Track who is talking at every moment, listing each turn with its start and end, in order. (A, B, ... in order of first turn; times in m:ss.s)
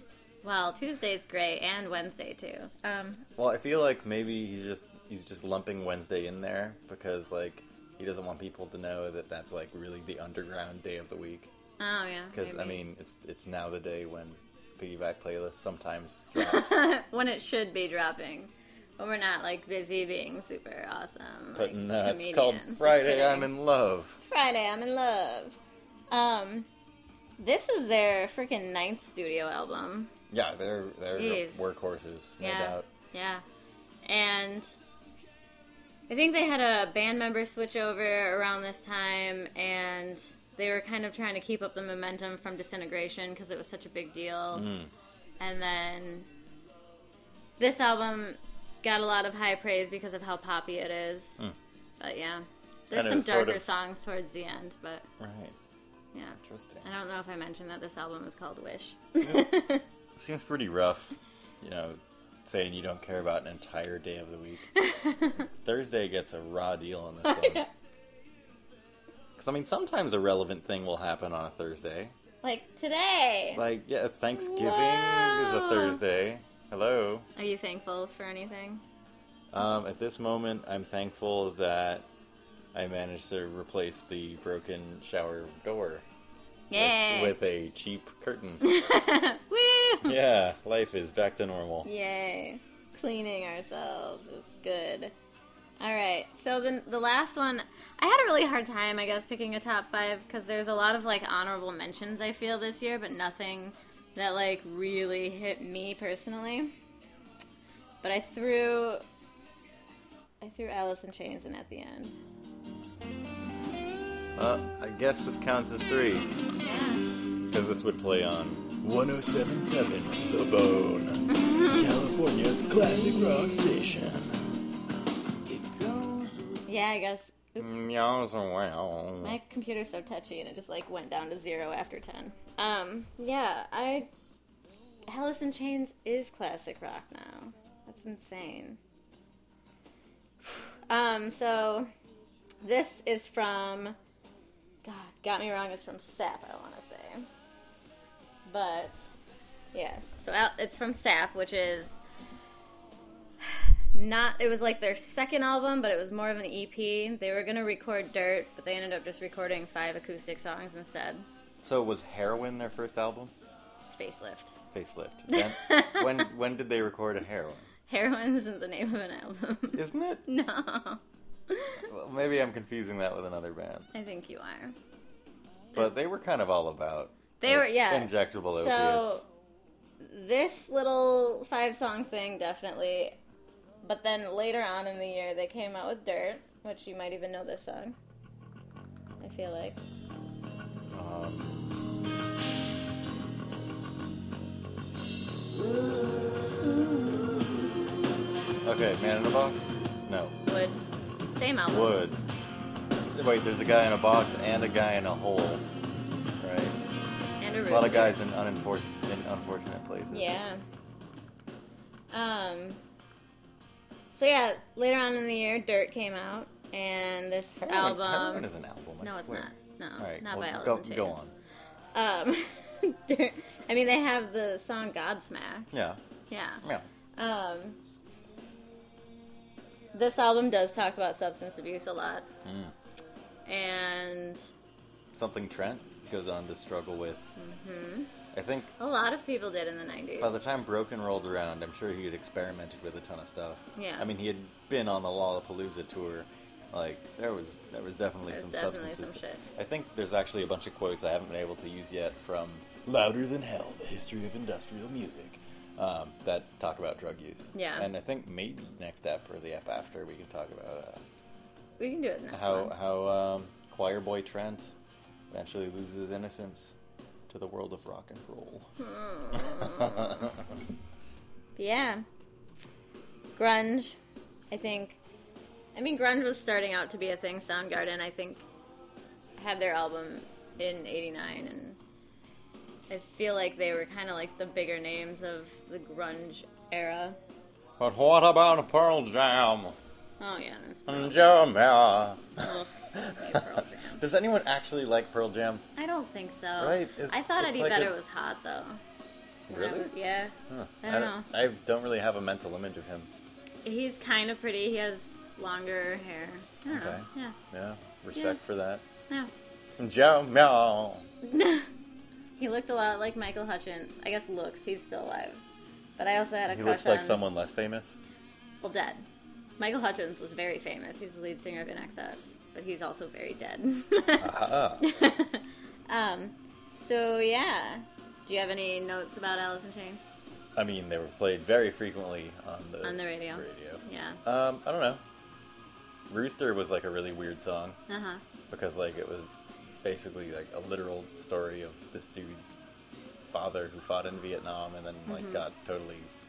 0:00.4-0:03.2 A
0:03.4-0:11.5 B
0:11.8-0:12.8 A
0:12.3-0:16.8 B
0:16.4-0:23.5 A
0:21.6-0:24.2 B
0:24.2-0:25.6 A
0:26.1-0:26.7 A
0:27.4-0:30.1 A
0:30.3-0:32.9 B
0:31.1-0:31.7 A
0:32.4-0:33.4 A
0:34.0-0:34.7 A
0:36.1-0:44.7 A
0:44.5-0:44.9 B
0:45.4-0:46.3 A
0:47.6-0:51.4 A
0:52.0-0:55.1 A
0:52.9-0:53.7 B
0:55.2-0:55.6 B
0:56.1-0:59.8 A
0:56.4-0:56.8 B
0:59.2-0:59.6 B
1:00.2-1:04.7 B
1:04.8-1:05.5 A
1:05.5-1:07.6 B
1:07.2-1:07.7 A
1:09.4-1:12.1 B
1:12.4-1:13.6 A
1:13.6-1:17.3 B
1:14.4-1:16.0 A
1:17.4-1:18.8 A
1:19.5-1:22.1 B
1:22.7-1:26.0 B
1:26.7-1:27.4 A
1:26.7-1:28.6 B
1:28.6-1:30.2 A
1:30.0-1:31.9 B
1:31.8-1:35.1 A
1:35.8-1:46.7 A
1:48.0-1:49.0 A
1:50.4-1:52.1 A
1:54.4-1:56.3 B
1:56.6-1:57.0 A
1:57.5-2:04.4 B
2:01.3-2:01.9 A
2:05.5-2:06.6 B
2:06.7-2:07.8 A
2:07.6-2:09.4 B
2:09.2-2:14.1 A
2:15.1-2:18.8 A
2:20.9-2:21.9 A
2:22.6-2:24.0 A
2:24.8-2:27.3 A
2:28.5-2:29.1 A
2:29.7-2:32.0 A
2:33.4-2:41.2 A
2:41.6-2:43.3 B
2:43.9-2:44.6 A
2:44.7-2:47.7 B
2:45.3-2:46.2 A
2:47.9-2:51.8 A
2:49.8-2:50.2 B
2:51.9-2:53.9 B
2:53.9-2:54.8 A
2:55.7-2:59.2 B
2:55.7-2:56.0 A
2:57.4-2:59.2 A
3:00.0-3:03.2 A
3:03.8-3:08.0 A
3:09.2-3:09.8 A
3:10.9-3:11.8 B
3:15.9-3:17.4 B
3:18.6-3:20.4 B
3:20.5-3:20.8 A
3:21.3-3:22.0 A
3:21.7-3:22.2 B
3:23.1-3:25.6 B
3:26.4-3:26.8 B
3:27.4-3:28.2 A
3:27.7-3:30.4 B
3:30.1-3:30.6 A
3:32.1-3:32.8 A
3:34.1-3:38.5 A
3:37.6-3:39.5 B
3:39.0-3:41.2 A
3:40.0-3:41.3 B
3:42.0-3:45.7 A
3:45.7-3:46.0 B
3:46.3-3:46.6 A
3:46.6-3:46.9 B
3:47.2-3:47.8 A
3:49.9-3:52.3 A
3:52.4-3:52.7 B
3:53.5-3:54.5 A
3:55.1-3:57.3 B
3:57.4-3:58.1 A
3:58.3-3:58.7 B
3:58.8-4:00.5 A
4:00.2-4:21.0 B
4:03.8-4:04.1 A
4:08.3-4:09.4 A
4:17.5-4:17.9 A
4:21.8-4:22.7 A
4:22.3-4:24.7 B
4:25.3-4:26.8 B
4:27.3-4:28.7 B
4:28.8-4:30.4 A
4:29.3-4:30.5 B
4:31.6-4:32.0 A
4:33.4-4:34.0 A
4:34.5-4:35.0 A
4:35.8-4:38.5 A
4:39.4-4:41.8 A
4:42.9-4:47.2 A
4:47.8-4:49.8 B
4:50.2-4:51.2 A
4:50.9-4:55.6 B
4:52.4-4:54.0 A
4:55.8-4:58.8 A
4:56.6-4:58.0 B
4:59.5-4:59.9 B
4:59.5-5:01.3 A
5:00.5-5:03.1 B
5:03.6-5:07.4 A
5:06.7-5:08.8 B
5:09.8-5:11.1 B
5:11.2-5:11.7 A
5:12.4-5:15.4 A
5:16.0-5:17.2 A
5:16.5-5:18.0 B
5:18.6-5:19.0 A
5:19.6-5:30.1 A
5:24.2-5:24.9 B
5:30.5-5:35.0 B
5:32.8-5:34.2 A
5:36.1-5:37.8 B
5:37.9-5:38.2 A
5:38.5-5:39.3 B
5:39.8-5:42.6 B
5:43.3-5:46.1 B
5:45.1-5:45.4 A